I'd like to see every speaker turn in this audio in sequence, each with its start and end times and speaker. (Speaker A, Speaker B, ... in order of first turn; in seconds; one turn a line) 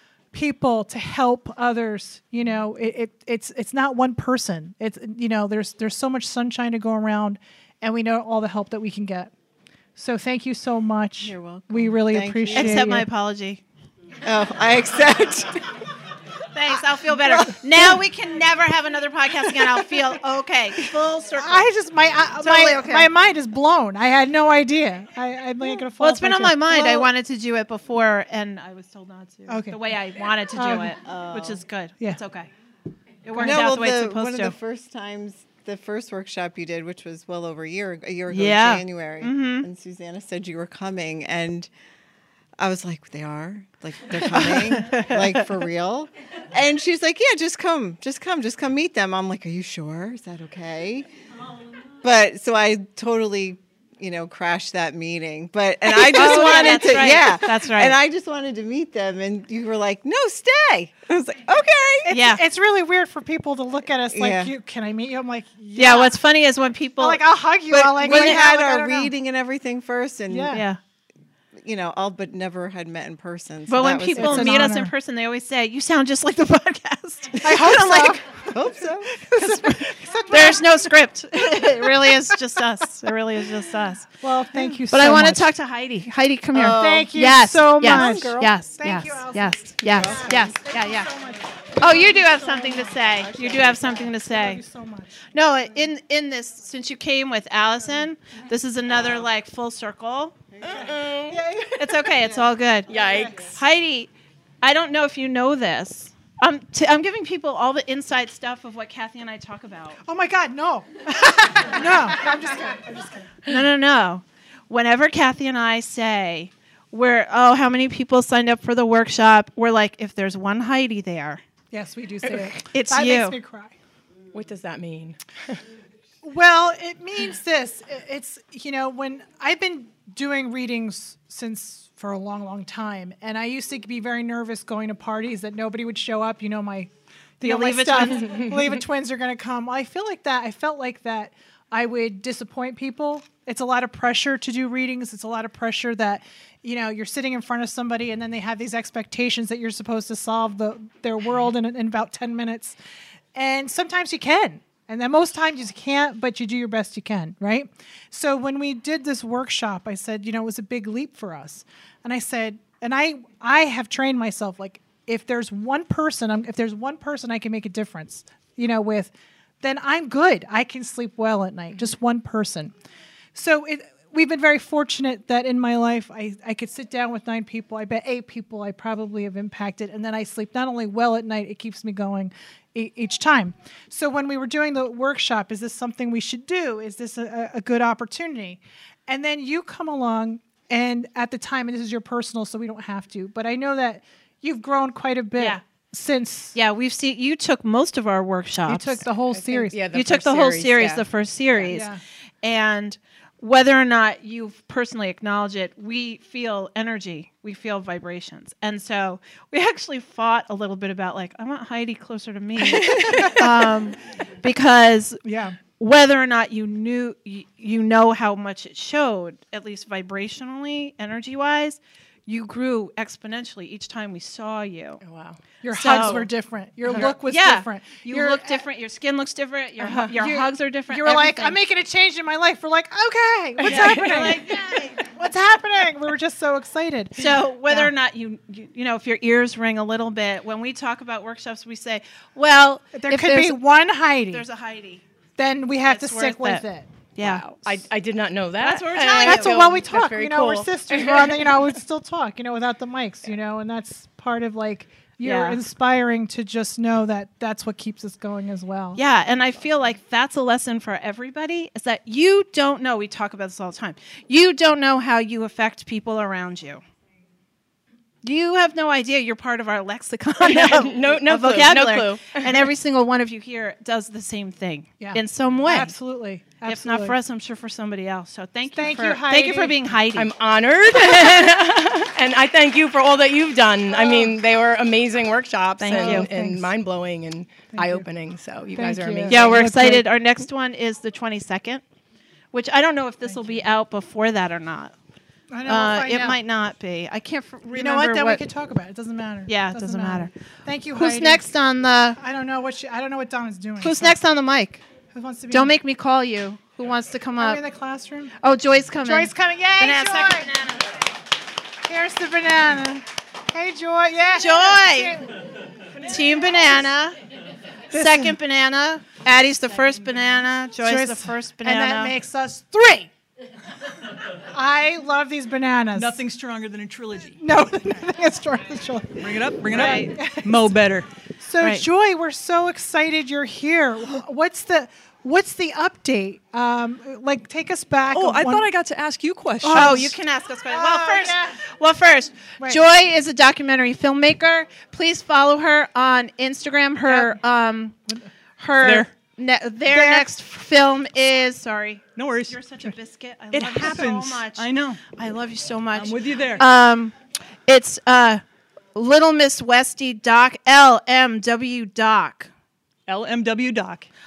Speaker A: 0.3-9.3
Speaker A: 10.0-13.1
Speaker B: 11.2-12.9
Speaker C: 12.5-13.6
Speaker B: 14.2-15.7
Speaker C: 16.5-21.7
Speaker A: 17.1-17.5
Speaker A: 21.4-27.1
Speaker C: 22.4-23.1
Speaker C: 26.0-32.5
Speaker A: 29.5-29.8
Speaker A: 30.6-30.9
Speaker B: 31.1-31.6
Speaker C: 33.2-34.5
Speaker B: 33.4-41.7
Speaker C: 38.3-39.7
Speaker B: 42.6-51.1
Speaker B: 52.0-62.1
Speaker C: 56.0-58.0
Speaker A: 62.1-66.2
Speaker C: 62.1-62.4
Speaker B: 64.1-64.5
Speaker C: 65.8-68.8
Speaker A: 67.0-69.1
Speaker B: 68.0-70.6
Speaker A: 70.3-70.7
Speaker C: 70.5-70.8
Speaker B: 71.6-74.7
Speaker C: 73.7-78.3
Speaker A: 74.2-74.9
Speaker A: 77.4-78.5
Speaker B: 78.5-79.2
Speaker A: 79.1-80.6
Speaker C: 79.4-84.2
Speaker A: 84.2-85.5
Speaker C: 84.9-91.1
Speaker B: 86.5-87.2
Speaker A: 86.8-93.2
Speaker B: 87.8-88.5
Speaker B: 89.9-90.5
Speaker C: 91.8-94.6
Speaker B: 93.3-94.0
Speaker A: 94.2-95.2
Speaker C: 95.3-100.4
Speaker B: 100.5-101.3
Speaker A: 100.7-101.7
Speaker D: 100.7-101.4
Speaker C: 101.8-104.1
Speaker D: 102.9-103.6
Speaker A: 103.0-103.4
Speaker C: 104.6-110.0
Speaker A: 110.0-113.6
Speaker C: 113.5-121.4
Speaker A: 121.7-123.7
Speaker C: 122.6-123.4
Speaker D: 124.3-125.2
Speaker A: 126.2-152.8
Speaker C: 137.4-138.5
Speaker A: 153.3-172.7
Speaker A: 173.3-196.6
Speaker C: 196.6-199.1
Speaker A: 198.7-199.8
Speaker D: 199.3-201.7
Speaker C: 199.9-201.9
Speaker A: 201.7-202.0
Speaker C: 202.4-215.2
Speaker A: 213.0-213.4
Speaker A: 215.2-215.6
Speaker C: 215.7-225.0
Speaker D: 225.0-225.4
Speaker A: 225.6-228.6
Speaker C: 225.7-226.3
Speaker C: 226.9-231.6
Speaker A: 229.9-237.9
Speaker C: 233.7-235.1
Speaker C: 237.2-243.6
Speaker A: 242.9-244.4
Speaker C: 244.3-245.0
Speaker A: 245.4-246.9
Speaker C: 245.8-246.6
Speaker C: 247.2-247.6
Speaker D: 247.2-251.6
Speaker C: 248.6-249.6
Speaker A: 249.2-259.0
Speaker C: 255.2-255.6
Speaker C: 259.0-266.8
Speaker C: 268.2-275.9
Speaker D: 270.4-272.7
Speaker A: 275.0-277.1
Speaker C: 276.6-280.3
Speaker A: 278.7-279.8
Speaker D: 280.1-289.8
Speaker C: 281.2-281.5
Speaker C: 285.8-286.3
Speaker A: 285.9-286.7
Speaker A: 287.7-288.1
Speaker A: 288.7-290.0
Speaker C: 289.3-291.8
Speaker C: 292.5-294.9
Speaker A: 295.5-296.4
Speaker C: 295.6-298.4
Speaker A: 297.7-301.5
Speaker C: 299.5-300.3
Speaker C: 300.9-302.2
Speaker A: 302.2-304.1
Speaker C: 303.8-304.8
Speaker A: 305.1-305.7
Speaker C: 305.5-307.6
Speaker A: 307.4-308.4
Speaker C: 308.4-310.9
Speaker A: 309.0-310.5
Speaker A: 311.9-315.3
Speaker C: 314.4-315.2
Speaker A: 316.0-316.6
Speaker C: 316.1-317.2
Speaker A: 317.9-318.4
Speaker C: 317.9-322.1
Speaker A: 320.8-323.1
Speaker A: 324.5-326.2
Speaker E: 325.9-327.4
Speaker A: 327.4-330.7
Speaker E: 329.2-331.1
Speaker C: 329.7-330.1
Speaker A: 331.4-338.7
Speaker E: 338.1-340.1
Speaker A: 339.6-340.1
Speaker C: 339.7-348.0
Speaker A: 340.7-341.6
Speaker A: 347.1-347.4
Speaker C: 348.6-357.1
Speaker E: 348.8-349.1
Speaker A: 349.9-350.3
Speaker E: 352.2-352.9
Speaker E: 353.5-355.0
Speaker E: 355.9-356.6
Speaker C: 357.7-358.4
Speaker C: 358.9-362.5
Speaker E: 363.1-364.1